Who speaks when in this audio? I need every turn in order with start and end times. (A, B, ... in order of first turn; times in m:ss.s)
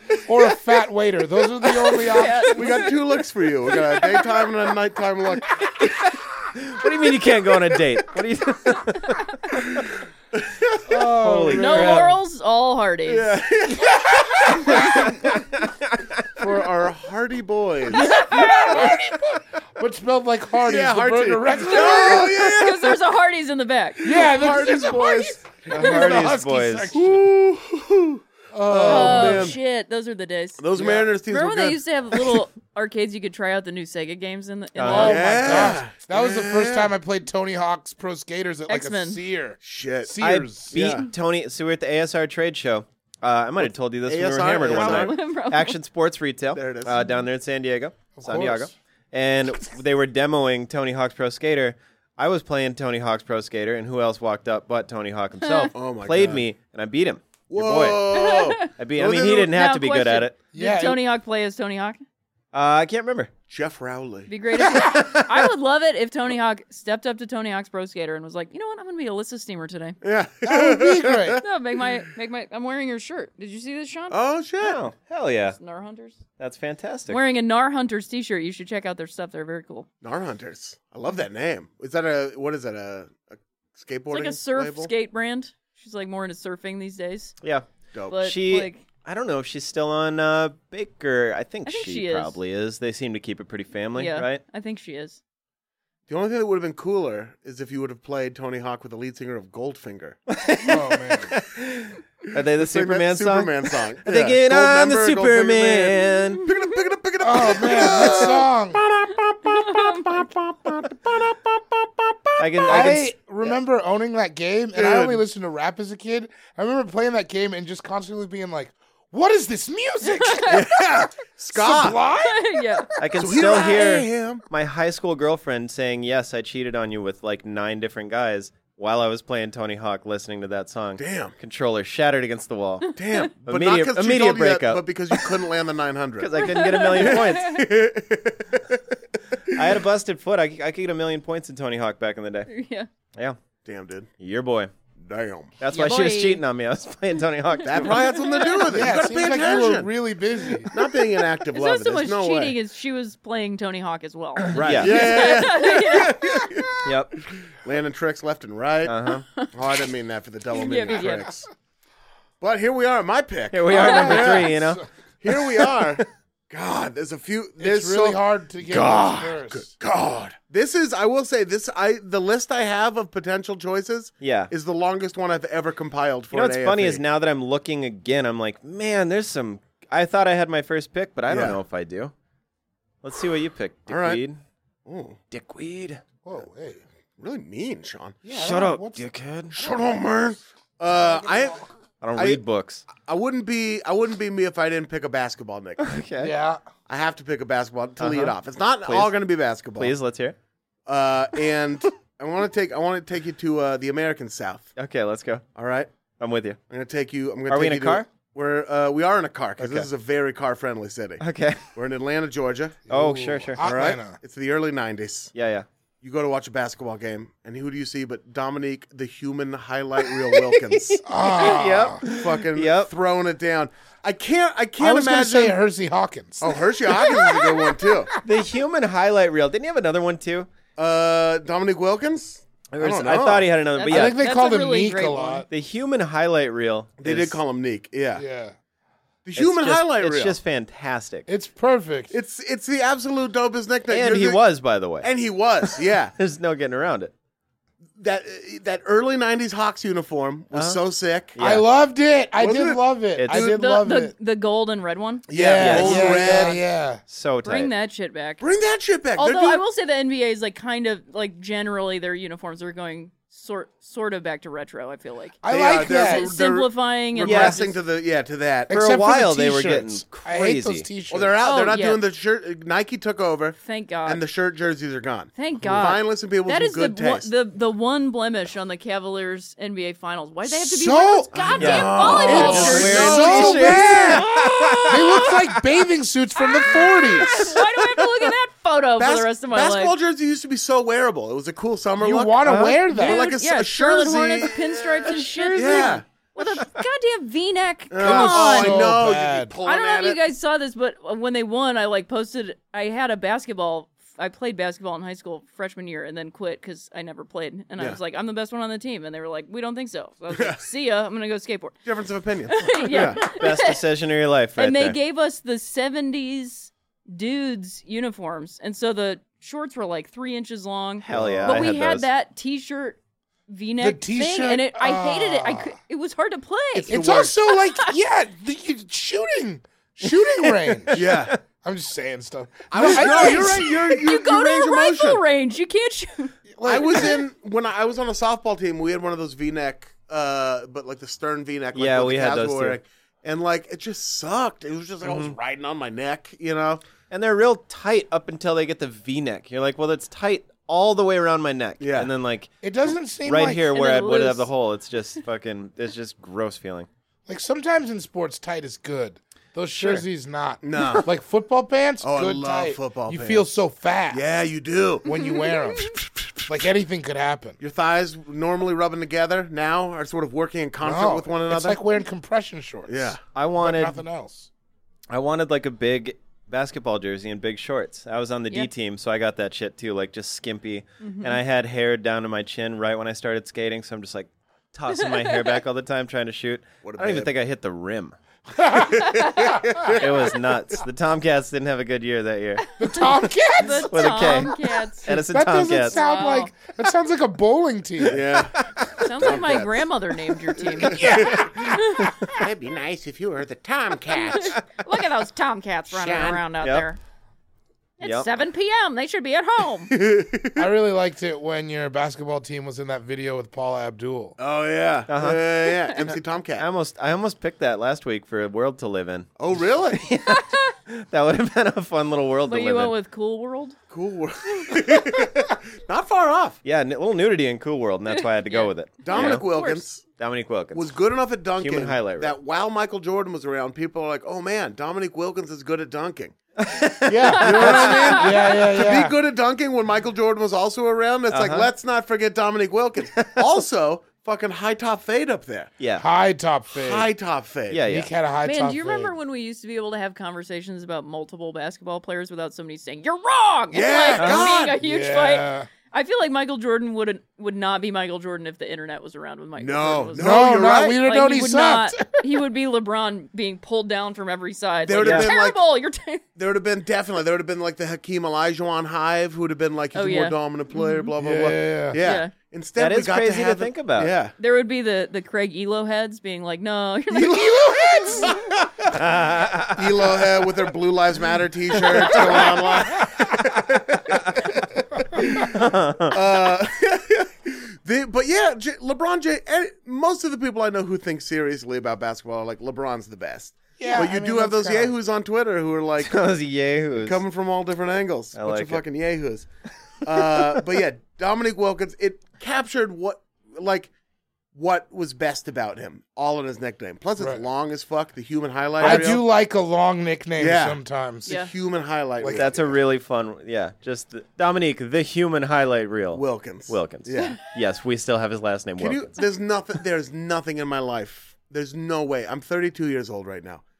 0:00.2-0:02.8 A
0:02.0-0:02.9 B
0:02.5-0:05.8 C
0:05.8-0:09.8 D
0:10.3-0:11.1 C
0:10.9-0:12.1 A
0:11.2-0:12.2 D
0:11.5-0:13.3 B
0:13.1-0:15.4 C
0:13.8-0:15.1 A
0:15.2-0:16.2 D
0:16.4-0:18.8 C
0:17.9-0:18.9 B
0:17.9-0:22.5 A
0:20.6-0:23.0 C
0:21.7-0:24.1 B
0:24.0-0:26.0 C
0:24.0-0:27.3 A
0:25.7-0:26.9 D
0:26.9-0:29.6 C
0:28.5-0:29.5 A
0:28.8-0:35.6 B
0:30.6-0:32.4 C
0:34.8-0:35.8 D
0:34.9-0:40.8 A
0:34.9-0:36.9 C
0:38.7-0:39.2 B
0:39.6-0:41.1 C
0:40.2-0:58.0 D
0:43.6-0:45.1 C
0:44.6-0:45.8 B
0:46.5-0:47.0 C
0:48.2-0:48.7 A
0:55.4-0:55.7 B
0:55.7-0:56.4 C
0:57.5-0:59.5 C
0:58.1-0:58.7 B
0:58.6-1:00.4 D
0:59.4-1:02.0 B
1:00.5-1:01.0 A
1:02.5-1:03.3 D
1:03.5-1:04.3 C
1:04.3-1:10.0 B
1:04.6-1:05.0 A
1:04.9-1:05.2 D
1:10.0-1:11.4 C
1:10.4-1:11.4 A
1:11.4-1:14.2 B
1:14.1-1:14.8 C
1:14.6-1:15.6 D
1:15.6-1:16.2 B
1:16.4-1:17.2 D
1:17.1-1:19.9 B
1:20.0-1:24.9 C
1:24.1-1:27.3 B
1:27.4-1:34.4 D
1:27.9-1:28.2 C
1:28.1-1:28.8 B
1:31.6-1:32.4 B
1:33.9-1:35.2 B
1:36.1-1:40.2 C
1:40.3-1:46.4 D
1:40.6-1:41.3 A
1:42.6-1:52.8 C
1:47.2-1:48.8 A
1:49.4-1:50.0 B
1:52.4-1:53.3 D
1:52.7-2:00.7 A
1:54.7-1:55.2 C
2:00.0-2:00.7 B
2:00.5-2:02.0 C
2:01.5-2:02.9 A
2:02.2-2:02.9 B
2:03.0-2:12.9 D
2:03.2-2:04.4 C
2:11.0-2:11.3 C
2:12.8-2:13.2 B
2:13.0-2:18.8 C
2:13.4-2:14.8 D
2:16.2-2:17.6 D
2:16.4-2:17.6 B
2:19.5-2:22.5 D
2:22.5-2:22.9 B
2:23.6-2:24.1 C
2:24.2-2:24.7 D
2:25.0-2:25.5 C
2:25.6-2:28.1 D
2:25.7-2:26.4 B
2:27.6-2:29.9 C
2:27.8-2:28.7 B
2:28.6-2:30.7 A
2:30.7-2:32.6 C
2:31.5-2:36.3 B
2:34.5-2:41.5 C
2:34.5-2:35.4 D
2:36.8-2:37.2 D
2:38.8-2:39.2 D
2:40.5-2:41.3 B
2:42.4-2:44.5 C
2:43.5-2:44.8 D
2:43.7-2:44.8 A
2:45.2-2:57.0 C
2:47.6-2:49.7 A
2:54.2-2:54.5 D
2:56.3-3:02.1 D
3:01.3-3:01.6 C
3:03.0-3:04.4 D
3:03.9-3:04.2 C
3:04.8-3:05.2 C
3:05.3-3:06.0 D
3:06.2-3:06.8 A
3:07.2-3:08.2 C
3:08.2-3:09.1 A
3:08.3-3:09.6 D
3:09.5-3:15.8 C
3:12.0-3:12.8 D
3:15.8-3:16.3 D
3:16.2-3:16.6 A
3:16.9-3:19.9 C
3:18.0-3:19.1 D
3:19.8-3:20.4 D
3:20.9-3:24.7 C
3:24.8-3:25.4 D
3:25.6-3:25.9 C
3:26.2-3:26.6 D
3:26.7-3:31.2 C
3:27.5-3:28.0 D
3:29.6-3:29.9 D
3:31.2-3:31.7 D
3:31.7-3:32.8 C
3:32.9-3:34.2 A
3:32.9-3:33.7 D
3:33.6-3:35.3 C
3:35.3-3:35.6 D
3:36.0-3:45.6 C
3:40.0-3:42.9 D
3:41.0-3:42.0 A
3:44.8-3:48.0 A
3:46.4-3:48.1 C
3:48.2-3:50.5 D
3:50.8-3:53.5 C
3:52.7-3:54.2 D
3:53.7-3:55.4 B
3:53.9-3:55.5 A
3:55.5-3:57.4 D
3:57.0-3:58.2 C
3:58.2-3:58.5 A
3:59.2-4:00.4 C
3:59.4-4:01.3 D
4:01.3-4:02.1 A
4:02.1-4:04.4 C
4:03.9-4:05.1 D
4:05.0-4:06.1 C
4:05.6-4:07.1 D
4:08.0-4:11.3 C
4:10.5-4:10.8 D
4:11.3-4:11.6 D
4:11.4-4:14.1 A
4:12.4-4:12.9 C
4:13.2-4:13.6 D
4:13.3-4:15.2 B
4:15.3-4:16.6 C
4:15.3-4:17.0 A
4:15.6-4:17.7 D
4:17.4-4:18.4 B
4:18.4-4:19.6 C
4:19.2-4:27.8 B
4:25.4-4:26.3 A
4:25.5-4:28.7 C
4:27.2-4:27.6 D
4:28.7-4:31.4 A
4:28.7-4:30.9 D
4:31.1-4:37.3 C
4:31.4-4:32.0 B
4:33.6-4:34.2 B
4:35.3-4:45.0 B
4:40.5-4:44.3 A
4:41.4-4:44.3 C
4:41.6-4:45.1 D
4:44.9-4:47.5 A
4:46.4-4:50.0 B
4:49.0-4:56.0 C
4:52.0-4:53.3 A
4:52.4-4:52.8 D
4:52.9-4:58.9 B
4:55.1-4:55.9 D
4:57.9-5:00.2 C
4:58.0-4:59.5 A
4:59.6-5:11.8 B
5:10.3-5:10.6 C
5:11.8-5:13.2 C
5:12.5-5:13.8 B
5:12.9-5:15.0 D
5:14.6-5:27.9 B
5:21.0-5:22.0 D
5:21.1-5:21.6 C
5:23.8-5:25.7 A
5:26.8-5:33.7 A
5:26.9-5:27.3 C
5:30.8-5:31.3 D
5:30.9-5:31.3 C
5:32.7-5:35.2 C
5:32.8-5:36.4 B
5:36.5-5:37.1 A
5:36.6-5:46.8 C
5:36.9-5:37.2 B
5:41.7-5:42.8 D
5:45.0-5:45.3 D
5:47.1-5:52.5 D
5:51.8-5:52.1 C
5:52.6-5:53.7 A
5:53.2-5:56.9 D
5:53.7-5:54.5 B
5:57.3-6:04.2 A
6:00.6-6:01.1 C
6:02.0-6:03.6 C
6:04.1-6:06.4 C
6:05.0-6:07.6 A
6:07.6-6:11.8 C
6:10.8-6:14.5 A
6:12.9-6:13.2 C
6:13.3-6:14.0 D
6:15.1-6:28.1 D
6:21.0-6:21.4 B
6:24.9-6:25.6 B
6:26.8-6:27.3 C
6:28.5-6:29.0 A
6:28.7-6:30.3 C
6:29.0-6:29.6 B
6:29.9-6:33.0 D
6:32.8-6:33.9 A
6:32.9-6:35.1 B
6:33.9-6:36.0 D
6:35.0-6:38.2 A
6:35.8-6:36.5 B
6:38.0-6:39.9 C
6:39.0-6:42.1 B
6:40.4-6:41.8 C
6:40.8-6:42.3 A
6:42.3-6:44.6 C
6:44.2-6:47.0 B
6:45.9-6:46.4 C
6:48.0-6:49.9 B
6:48.0-6:48.3 D
6:49.9-6:50.7 C
6:50.6-6:54.4 A
6:54.4-6:56.6 C
6:55.1-6:55.4 D
6:56.1-6:59.3 D
6:59.4-7:00.1 C
6:59.9-7:02.9 D
7:00.2-7:00.7 B
7:02.5-7:03.8 B
7:03.9-7:06.6 C
7:06.6-7:09.4 D
7:08.4-7:09.8 B
7:09.0-7:10.0 C
7:10.2-7:10.9 D
7:10.7-7:16.4 C
7:11.6-7:12.4 D
7:16.6-7:17.8 D
7:17.0-7:19.2 A
7:17.2-7:18.3 B
7:17.4-7:25.7 C
7:21.3-7:21.7 D
7:23.2-7:23.5 D
7:25.8-7:26.0 D
7:26.0-7:27.1 A
7:26.7-7:27.8 C
7:27.7-7:28.1 D
7:27.8-7:29.1 A
7:28.4-7:46.2 B
7:33.7-7:34.8 C
7:34.2-7:34.5 D
7:34.8-7:35.7 A
7:39.6-7:41.0 C
7:40.2-7:42.2 A
7:44.8-7:45.7 C
7:45.0-7:45.3 D
7:46.4-7:54.3 C
7:49.9-7:51.1 B
7:51.2-7:52.0 A
7:52.0-7:52.3 B
7:52.8-7:54.1 D
7:54.4-7:58.4 B
7:57.1-7:59.0 C
7:57.2-7:58.4 A
7:58.9-8:00.1 D
7:59.7-8:05.5 C
8:01.9-8:02.5 D
8:05.4-8:06.2 D
8:06.1-8:16.2 C
8:13.8-8:14.9 A
8:16.0-8:17.2 D
8:17.0-8:19.5 C
8:18.3-8:18.8 D
8:20.0-8:23.9 C
8:20.1-8:20.6 D
8:24.5-8:29.3 C
8:27.2-8:27.4 A
8:28.8-8:31.3 A
8:28.8-8:29.1 D
8:30.4-8:32.8 C
8:31.2-8:31.5 B
8:32.2-8:32.5 A
8:32.3-8:39.2 D
8:36.1-8:37.4 C
8:38.8-8:43.6 C